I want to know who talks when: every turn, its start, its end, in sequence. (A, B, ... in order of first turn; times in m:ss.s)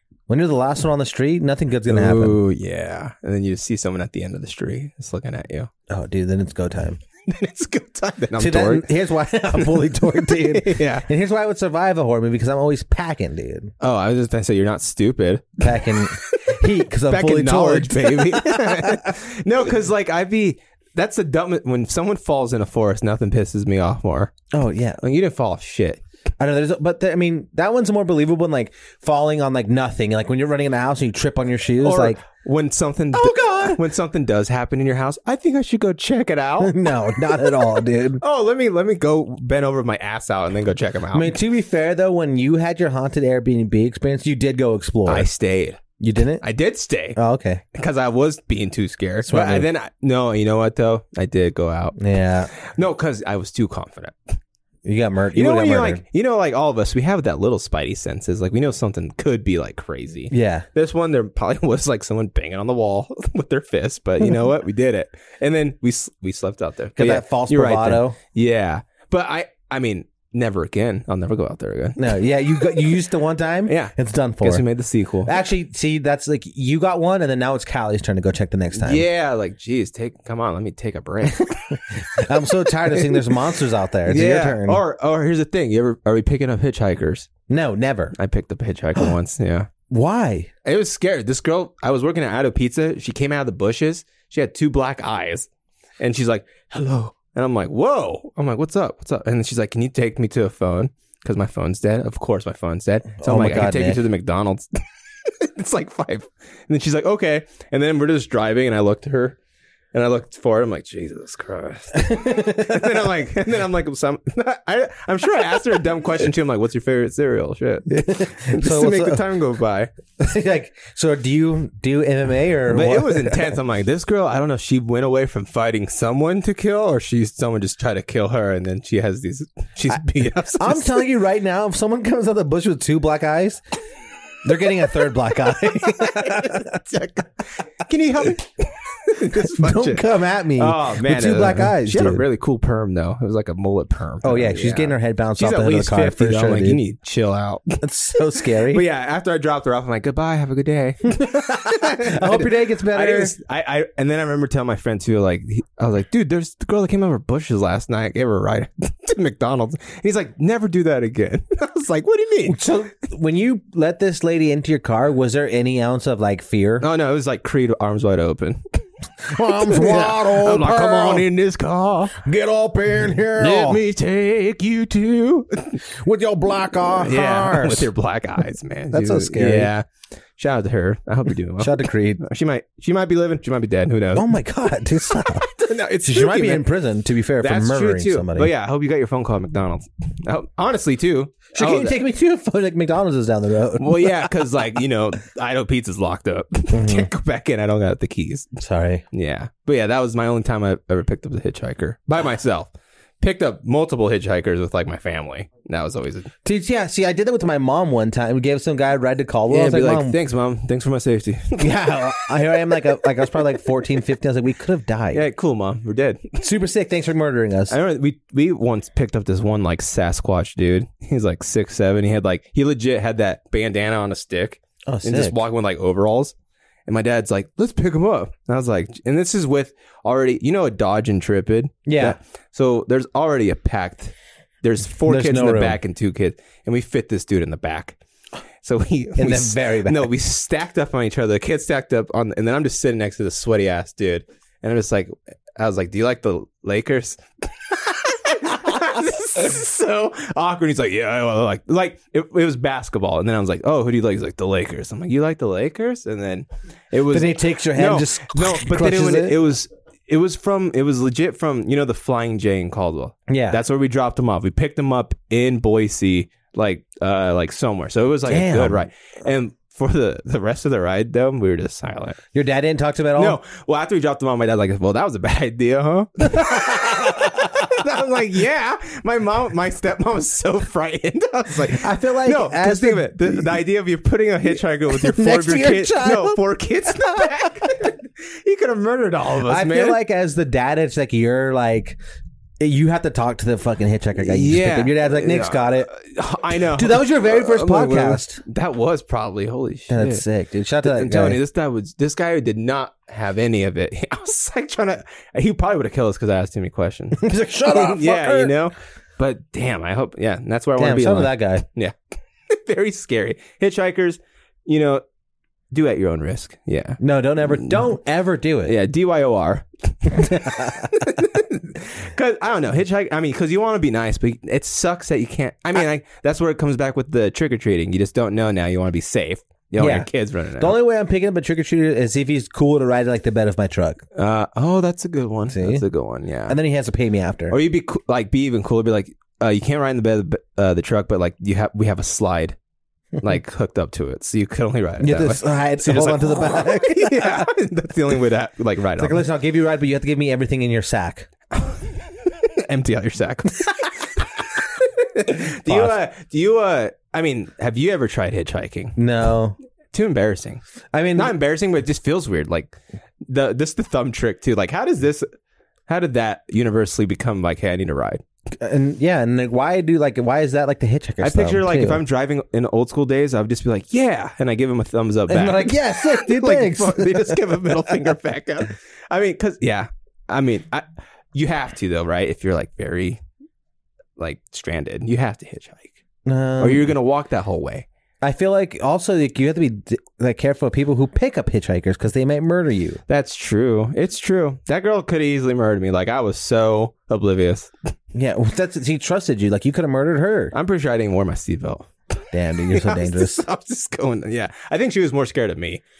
0:00.3-0:02.4 A
0:01.9-0:05.7 B
0:05.9-0:07.0 A
0:07.2-0:08.9 B
0:08.4-0:13.7 A
0:09.5-0:11.1 B
0:13.8-0:24.3 B
0:15.6-0:19.1 A
0:24.5-0:25.0 A
0:25.0-0:26.0 B
0:26.4-0:32.2 A
0:31.8-0:37.6 B
0:33.1-0:33.8 A
0:36.6-0:38.2 A
0:38.2-0:41.4 B
0:41.1-0:45.3 A
0:45.0-0:45.8 B
0:46.0-0:46.4 A
0:46.4-0:47.2 B
0:47.2-0:47.6 A
0:47.7-0:52.0 B
0:49.2-0:49.7 A
0:52.0-0:52.5 A
0:52.5-0:54.3 B
0:54.8-0:56.0 A
0:55.3-1:12.1 B
1:00.3-1:00.6 A
1:07.0-1:08.2 A
1:12.0-1:14.6 A
1:13.6-1:15.3 B
1:15.2-1:19.0 A
1:18.7-1:23.3 B
1:21.7-1:24.8 A
1:24.0-1:27.3 B
1:27.5-1:28.1 A
1:28.1-1:29.7 B
1:29.9-1:30.5 A
1:30.6-1:35.5 B
1:36.0-1:44.7 B
1:43.2-1:44.0 A
1:45.2-1:49.4 B
1:49.9-1:59.9 B
1:52.0-1:52.9 A
1:57.9-1:59.2 A
2:00.2-2:03.6 A
2:02.7-2:11.0 B
2:10.6-2:13.6 A
2:14.4-2:16.8 A
2:15.7-2:27.8 B
2:19.3-2:22.2 A
2:24.2-2:26.8 A
2:27.8-2:28.8 A
2:28.3-2:42.7 B
2:31.1-2:33.3 A
2:42.4-2:46.8 A
2:46.8-2:52.2 B
2:49.3-2:51.3 A
2:52.1-2:53.8 A
2:53.4-2:55.8 B
2:55.8-2:57.9 A
2:57.0-2:59.8 B
2:58.9-2:59.7 A
3:00.4-3:04.3 B
3:01.6-3:02.2 A
3:04.1-3:08.5 A
3:05.4-3:06.7 B
3:07.4-3:12.0 B
3:11.5-3:14.3 A
3:13.8-3:18.5 B
3:16.7-3:17.1 A
3:18.6-3:19.0 A
3:19.1-3:26.3 B
3:26.4-3:30.2 A
3:29.5-3:32.2 B
3:31.6-3:35.2 A
3:35.1-3:36.4 B
3:36.4-3:37.8 A
3:37.7-3:46.3 B
3:44.9-3:45.4 A
3:46.9-3:58.0 B
3:51.8-3:52.2 A
3:55.0-3:55.8 A
3:58.6-4:32.2 B
3:59.2-4:00.1 A
4:17.1-4:19.4 A
4:23.3-4:23.6 A
4:28.2-4:28.9 A
4:32.3-4:33.4 A
4:33.2-4:50.0 B
4:36.4-4:37.4 A
4:41.7-4:43.5 A
4:44.9-4:47.4 A
4:49.4-4:52.0 A
4:52.6-4:55.9 A
4:54.2-5:00.2 B
4:56.6-4:58.4 A
4:59.9-5:01.4 A
5:00.8-5:11.9 B
5:07.2-5:08.5 A
5:10.8-5:11.6 A
5:12.5-5:15.0 B
5:15.7-5:17.8 B
5:17.0-5:18.7 A
5:18.6-5:30.8 B
5:20.1-5:20.9 A
5:29.8-5:34.0 A
5:34.1-5:36.6 B
5:35.5-5:35.8 A
5:36.5-5:37.6 A
5:37.5-5:42.6 B
5:43.2-5:49.2 B
5:45.0-5:47.5 A
5:49.0-5:51.3 A
5:51.6-5:59.0 B
5:55.6-5:56.0 A
5:59.0-5:59.6 A
5:59.9-6:00.6 B
6:00.9-6:01.3 A
6:01.1-6:05.3 B
6:05.9-6:08.2 B
6:08.6-6:12.0 A
6:11.2-6:23.2 B
6:15.3-6:17.8 A
6:24.2-6:26.0 B
6:26.2-6:26.9 A
6:26.6-6:27.8 B
6:28.2-6:33.0 A
6:33.1-6:37.7 B
6:38.1-6:40.5 A
6:40.5-6:41.9 B
6:42.3-6:43.4 A
6:42.7-6:45.8 B